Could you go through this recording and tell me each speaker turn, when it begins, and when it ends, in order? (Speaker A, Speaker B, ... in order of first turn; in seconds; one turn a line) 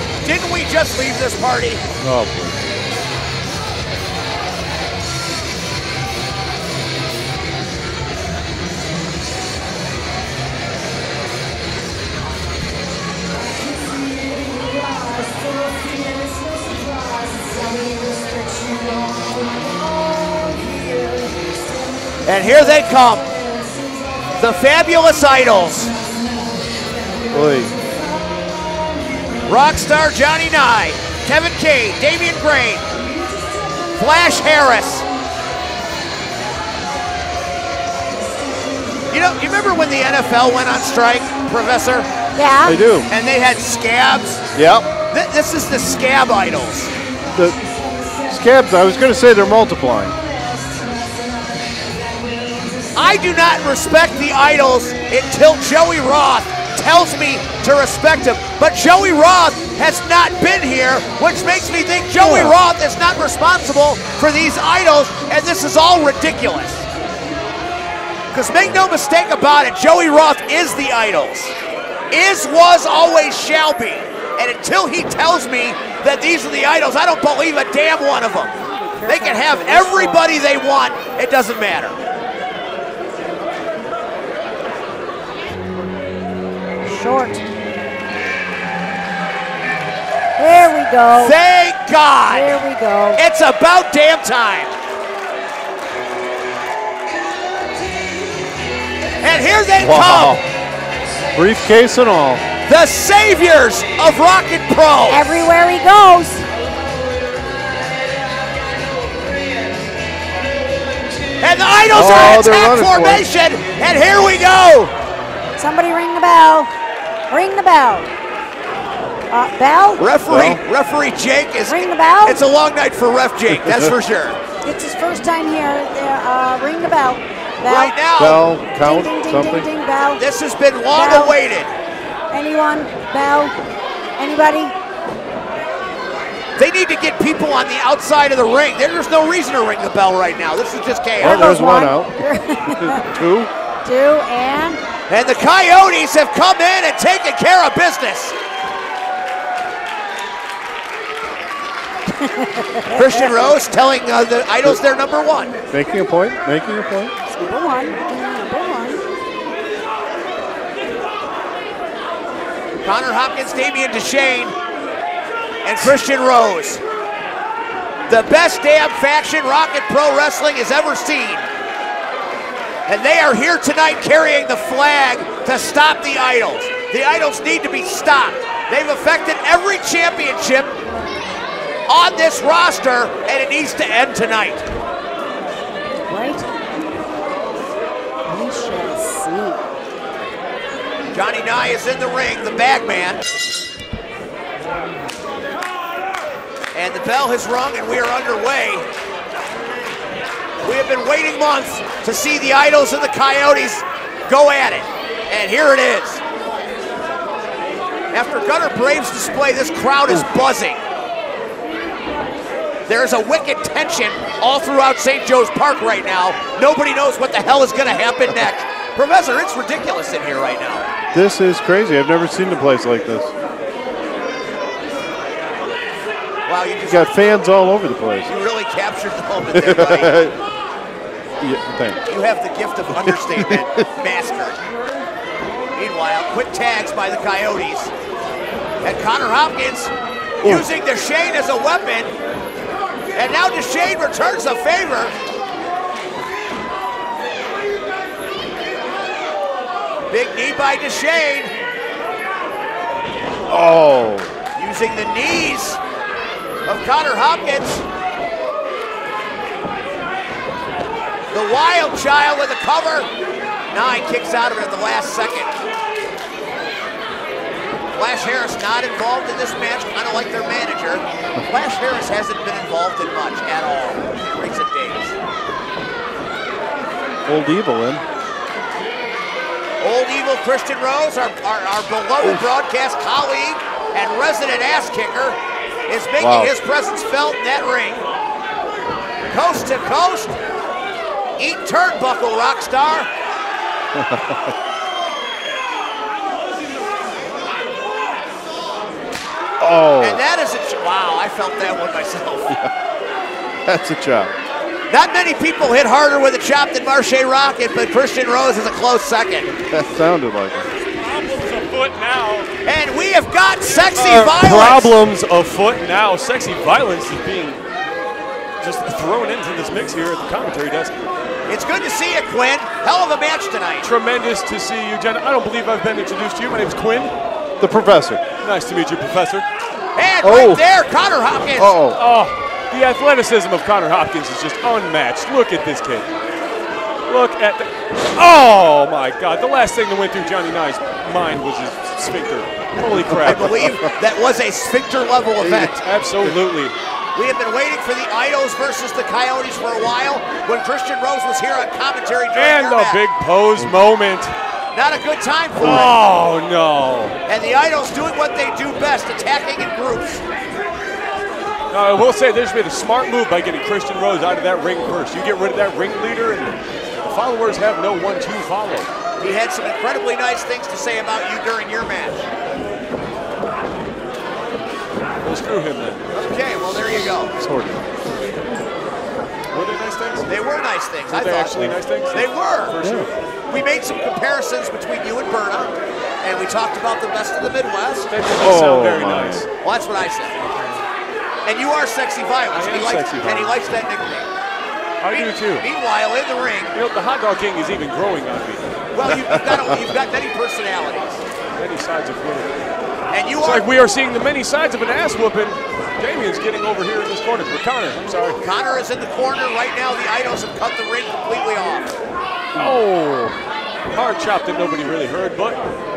Speaker A: 0.2-1.8
Speaker B: 2.0-2.6
Speaker A: 22.2-23.3
Speaker A: 24.4-25.9
Speaker B: 27.3-27.7
Speaker A: 29.4-32.9
Speaker A: 33.9-35.1
Speaker A: 39.1-42.1
Speaker C: 42.4-42.8
Speaker B: 42.6-43.1
Speaker A: 43.1-44.5
Speaker B: 44.5-44.9
Speaker A: 45.1-46.9
Speaker B: 48.3-50.1
Speaker A: 52.9-66.9
Speaker B: 62.2-62.5
Speaker A: 68.3-71.5
Speaker A: 72.1-78.5
Speaker C: 78.6-80.3
Speaker A: 79.0-82.0
Speaker C: 86.8-87.4
Speaker C: 90.4-91.4
Speaker A: 91.1-92.6
Speaker C: 92.3-93.2
Speaker A: 93.1-94.7
Speaker A: 99.2-100.4
Speaker B: 99.8-100.4
Speaker B: 101.3-102.4
Speaker A: 102.7-105.3
Speaker C: 105.1-106.5
Speaker A: 111.4-114.9
Speaker B: 111.9-113.2
Speaker C: 115.6-116.7
Speaker C: 117.3-118.1
Speaker C: 119.3-120.0
Speaker A: 120.0-124.4
Speaker B: 120.2-120.6
Speaker C: 121.7-122.4
Speaker C: 124.6-127.9
Speaker A: 127.6-128.5
Speaker B: 128.2-129.7
Speaker C: 128.7-130.2
Speaker A: 130.2-131.7
Speaker C: 130.9-131.4
Speaker C: 132.3-133.5
Speaker C: 134.2-134.7
Speaker A: 136.6-141.6
Speaker C: 141.2-143.1
Speaker B: 141.2-142.2
Speaker B: 142.8-143.5
Speaker C: 143.8-144.8
Speaker A: 145.1-148.3
Speaker C: 152.1-153.4
Speaker A: 152.9-155.6
Speaker B: 155.7-157.1
Speaker C: 157.3-159.0
Speaker A: 162.8-164.5
Speaker A: 165.6-166.8
Speaker A: 168.1-171.5
Speaker A: 172.9-180.7
Speaker A: 181.9-184.7
Speaker C: 186.1-186.4
Speaker C: 188.2-189.6
Speaker A: 191.1-193.2
Speaker A: 196.7-198.8
Speaker A: 200.6-206.2
Speaker A: 208.1-210.8
Speaker A: 212.8-220.9
Speaker B: 221.1-223.3
Speaker A: 226.5-227.2
Speaker B: 226.8-228.3
Speaker A: 228.2-230.2
Speaker B: 229.5-230.3
Speaker B: 231.4-232.0
Speaker A: 232.1-234.6
Speaker B: 232.9-233.7
Speaker A: 235.7-237.9
Speaker A: 238.8-242.1
Speaker A: 243.1-245.2
Speaker A: 250.1-251.5
Speaker B: 253.5-254.3
Speaker A: 254.6-255.8
Speaker A: 256.6-257.8
Speaker A: 261.3-263.1
Speaker A: 263.7-265.5
Speaker A: 267.9-275.1
Speaker B: 277.3-278.0
Speaker A: 279.8-288.1
Speaker B: 286.2-286.5
Speaker A: 289.2-290.4
Speaker A: 291.4-293.1
Speaker B: 293.9-294.5
Speaker B: 299.6-300.2
Speaker A: 300.0-302.6
Speaker B: 303.6-304.3
Speaker A: 304.9-309.5
Speaker B: 309.7-310.7
Speaker D: 311.0-312.5
Speaker A: 312.6-314.9
Speaker D: 313.6-317.6
Speaker D: 318.6-320.9
Speaker A: 321.5-323.9
Speaker D: 323.8-327.1
Speaker B: 327.6-328.2
Speaker D: 328.4-329.4
Speaker A: 329.9-331.8
Speaker B: 330.2-330.6
Speaker B: 331.6-332.0
Speaker D: 331.9-336.1
Speaker D: 337.1-343.5
Speaker B: 343.2-343.9
Speaker A: 343.2-345.8
Speaker B: 345.4-346.4
Speaker D: 345.8-346.7
Speaker A: 347.1-353.0
Speaker D: 352.3-354.3
Speaker A: 354.7-355.9
Speaker D: 355.6-357.2
Speaker A: 357.3-360.2
Speaker D: 361.7-368.9
Speaker A: 369.2-372.2
Speaker D: 375.2-376.0
Speaker A: 376.1-377.3
Speaker B: 377.4-377.8
Speaker D: 379.5-380.2
Speaker A: 380.3-382.8
Speaker D: 381.1-383.1
Speaker B: 382.8-383.1
Speaker A: 383.5-388.1
Speaker D: 388.1-389.5
Speaker B: 388.4-389.5
Speaker A: 389.6-390.4
Speaker D: 390.4-390.8
Speaker A: 391.4-394.3
Speaker D: 392.5-393.6
Speaker D: 395.0-395.6
Speaker A: 395.1-396.8
Speaker D: 396.7-398.7
Speaker A: 398.9-401.2
Speaker B: 399.3-399.8
Speaker D: 401.6-402.5
Speaker A: 403.1-403.7
Speaker D: 403.4-408.4
Speaker A: 408.4-411.9
Speaker D: 412.5-413.3
Speaker B: 412.5-412.8
Speaker D: 413.9-415.6